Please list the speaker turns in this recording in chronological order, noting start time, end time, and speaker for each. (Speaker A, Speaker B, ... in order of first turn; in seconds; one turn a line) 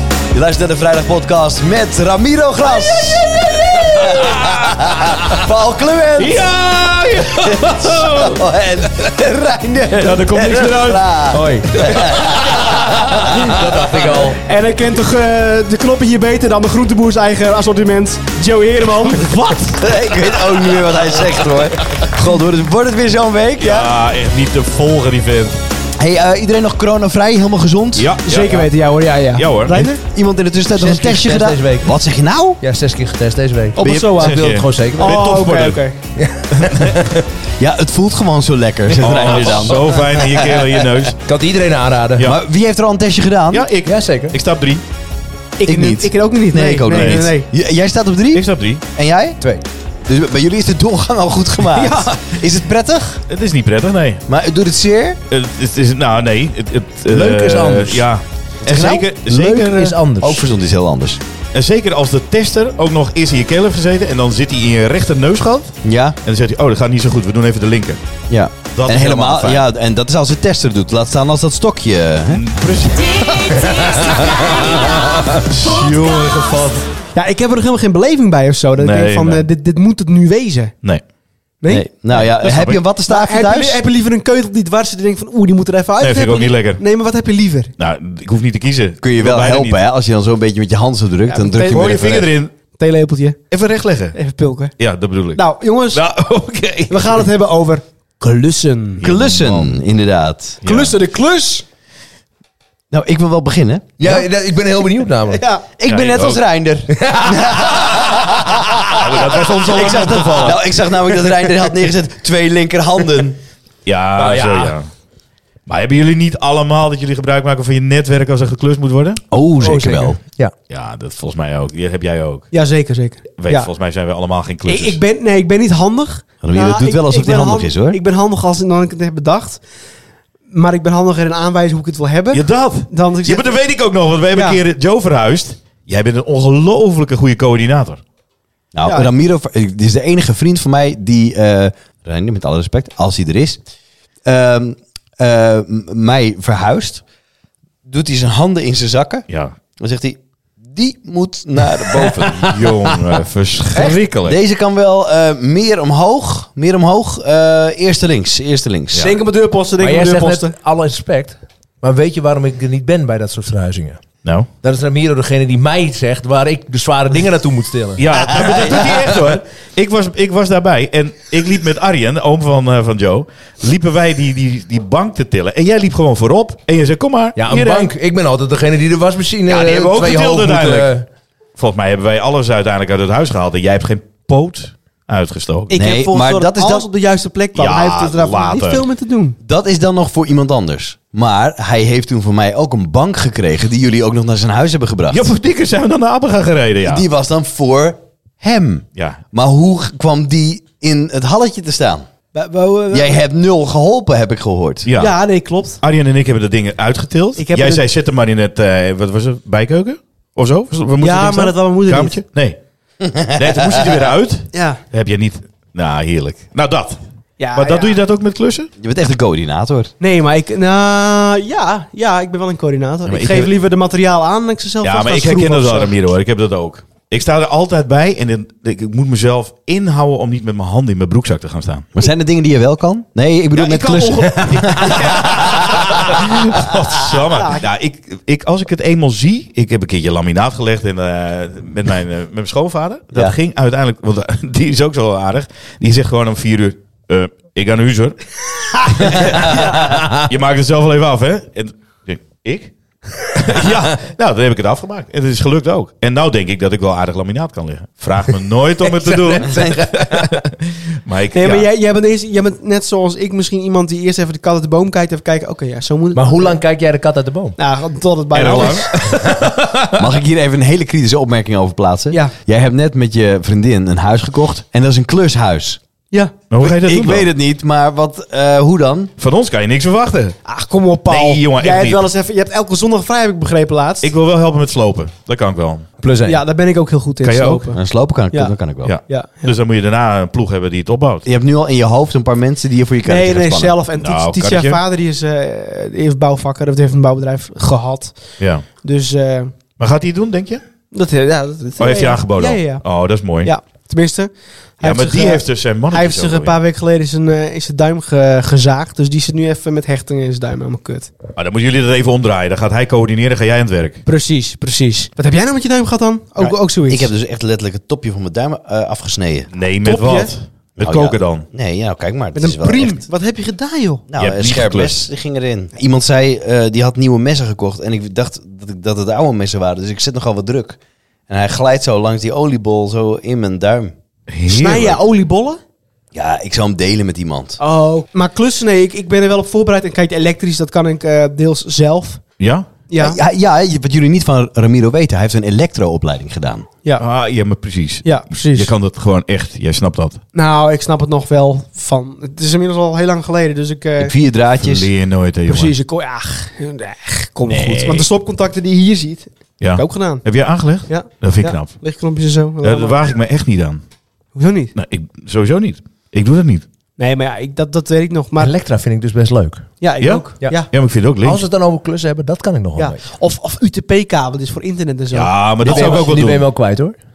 Speaker A: 0.3-6.5
Speaker B: 3.7-4.6
Speaker B: 6.2-8.4
Speaker A: 7.4-13.5
Speaker B: 9.9-11.1
Speaker C: 11.3-14.4
Speaker D: 14.4-19.3
Speaker B: 19.1-19.8
Speaker A: 19.7-23.9
Speaker B: 23.6-25.6
Speaker A: 26.0-28.1
Speaker B: 27.9-28.7
Speaker D: 28.2-30.0
Speaker B: 29.3-29.9
Speaker A: 30.1-32.6
Speaker C: 30.7-31.9
Speaker C: 32.6-35.2
Speaker D: 33.8-34.4
Speaker A: 33.8-34.2
Speaker B: 34.2-35.8
Speaker D: 35.0-36.0
Speaker C: 36.1-37.2
Speaker B: 36.5-37.2
Speaker A: 37.6-40.4
Speaker B: 39.0-41.2
Speaker C: 41.2-42.3
Speaker A: 42.2-43.7
Speaker B: 43.5-44.8
Speaker C: 43.8-44.4
Speaker D: 45.6-47.5
Speaker A: 45.6-49.4
Speaker B: 46.9-47.3
Speaker B: 48.3-48.8
Speaker A: 50.0-53.2
Speaker B: 53.3-54.2
Speaker A: 54.3-55.2
Speaker B: 55.3-60.0
Speaker C: 57.1-58.0
Speaker A: 58.6-59.1
Speaker C: 59.2-60.5
Speaker A: 60.2-61.2
Speaker B: 61.5-68.0
Speaker A: 65.8-66.2
Speaker A: 68.3-72.4
Speaker B: 68.7-69.6
Speaker B: 72.3-76.9
Speaker D: 77.1-80.7
Speaker B: 78.8-79.4
Speaker A: 81.7-83.8
Speaker B: 82.1-82.8
Speaker D: 83.1-87.7
Speaker B: 86.0-86.8
Speaker B: 87.8-89.8
Speaker A: 89.0-92.2
Speaker D: 91.3-93.4
Speaker B: 91.7-92.5
Speaker B: 93.5-94.2
Speaker D: 94.1-94.7
Speaker B: 94.8-97.3
Speaker D: 95.3-96.0
Speaker D: 96.9-99.0
Speaker B: 99.0-99.8
Speaker A: 99.0-100.6
Speaker B: 100.6-101.0
Speaker D: 100.6-101.6
Speaker A: 102.9-104.2
Speaker C: 104.0-105.4
Speaker D: 105.3-105.6
Speaker A: 105.8-113.4
Speaker B: 105.8-106.4
Speaker C: 106.9-108.7
Speaker B: 108.9-110.6
Speaker B: 113.8-114.9
Speaker C: 114.2-114.7
Speaker B: 115.7-119.2
Speaker A: 119.3-120.2
Speaker D: 119.6-120.1
Speaker B: 120.7-122.5
Speaker D: 122.5-123.7
Speaker B: 123.4-125.0
Speaker D: 124.7-129.6
Speaker A: 126.4-128.0
Speaker D: 130.5-133.5
Speaker B: 132.3-138.0
Speaker D: 134.3-134.6
Speaker A: 138.7-143.6
Speaker D: 138.8-139.1
Speaker A: 144.2-147.0
Speaker A: 147.8-149.2
Speaker B: 149.3-149.5
Speaker A: 149.8-152.5
Speaker C: 152.2-153.0
Speaker B: 152.3-154.4
Speaker A: 154.2-159.1
Speaker D: 158.9-160.5
Speaker C: 159.8-164.0
Speaker B: 164.2-164.5
Speaker C: 164.6-169.4
Speaker B: 168.0-177.9
Speaker A: 168.2-168.8
Speaker C: 177.3-181.1
Speaker B: 179.4-180.9
Speaker B: 181.6-185.7
Speaker D: 185.7-189.4
Speaker A: 185.7-186.8
Speaker B: 187.5-188.8
Speaker A: 189.4-195.2
Speaker B: 195.1-197.0
Speaker A: 196.8-202.1
Speaker B: 198.9-199.2
Speaker D: 202.3-203.2
Speaker A: 202.9-204.9
Speaker B: 204.8-205.2
Speaker D: 204.9-205.8
Speaker B: 205.8-212.6
Speaker D: 207.4-207.8
Speaker D: 211.0-212.2
Speaker A: 213.0-213.7
Speaker B: 213.3-217.0
Speaker D: 214.5-214.8
Speaker D: 217.4-218.0
Speaker B: 217.5-218.7
Speaker A: 218.8-219.9
Speaker D: 220.0-225.9
Speaker B: 223.1-223.5
Speaker B: 224.8-231.9
Speaker A: 231.9-236.7
Speaker B: 233.5-248.2
Speaker D: 237.3-237.6
Speaker B: 248.7-252.7
Speaker C: 249.8-250.2
Speaker B: 253.3-261.7
Speaker C: 258.8-260.5
Speaker D: 261.3-266.5
Speaker C: 266.1-267.6
Speaker D: 267.6-269.1
Speaker B: 268.3-270.0
Speaker C: 269.1-269.5
Speaker A: 269.9-275.8
Speaker B: 276.5-277.3
Speaker A: 276.6-279.1
Speaker B: 279.2-280.4
Speaker D: 280.4-284.1
Speaker B: 281.1-282.1
Speaker B: 284.0-285.9
Speaker C: 286.0-286.4
Speaker D: 286.2-287.8
Speaker B: 287.2-287.7
Speaker A: 287.7-288.9
Speaker B: 288.8-291.2
Speaker D: 289.1-289.5
Speaker A: 291.2-293.8
Speaker D: 293.0-299.5
Speaker B: 294.0-294.8
Speaker B: 298.4-298.6
Speaker B: 299.8-300.6
Speaker D: 300.9-302.8
Speaker B: 301.8-303.5
Speaker D: 303.4-311.1
Speaker B: 304.8-306.6
Speaker B: 311.4-314.0
Speaker D: 314.1-317.1
Speaker A: 316.4-319.5
Speaker B: 319.5-321.5
Speaker D: 319.8-320.3
Speaker A: 320.8-323.1
Speaker D: 322.3-324.0
Speaker A: 324.1-330.8
Speaker B: 324.2-325.0
Speaker A: 331.3-333.9
Speaker B: 334.3-335.0
Speaker D: 334.5-335.6
Speaker A: 336.1-337.6
Speaker D: 337.6-342.2
Speaker B: 342.4-342.7
Speaker D: 342.9-343.2
Speaker A: 343.0-346.7
Speaker B: 347.0-350.2
Speaker D: 348.0-348.7
Speaker D: 350.3-354.1
Speaker A: 354.0-354.9
Speaker B: 354.6-355.7
Speaker D: 355.5-360.2
Speaker B: 357.4-358.1
Speaker B: 359.6-361.8
Speaker D: 360.9-363.0
Speaker B: 362.6-363.8
Speaker D: 364.3-364.7
Speaker B: 364.7-366.6
Speaker D: 367.0-368.5
Speaker C: 368.4-369.7
Speaker D: 369.8-370.7
Speaker B: 370.0-371.4
Speaker C: 371.2-373.0
Speaker D: 372.8-376.1
Speaker B: 375.1-376.4
Speaker C: 375.6-377.0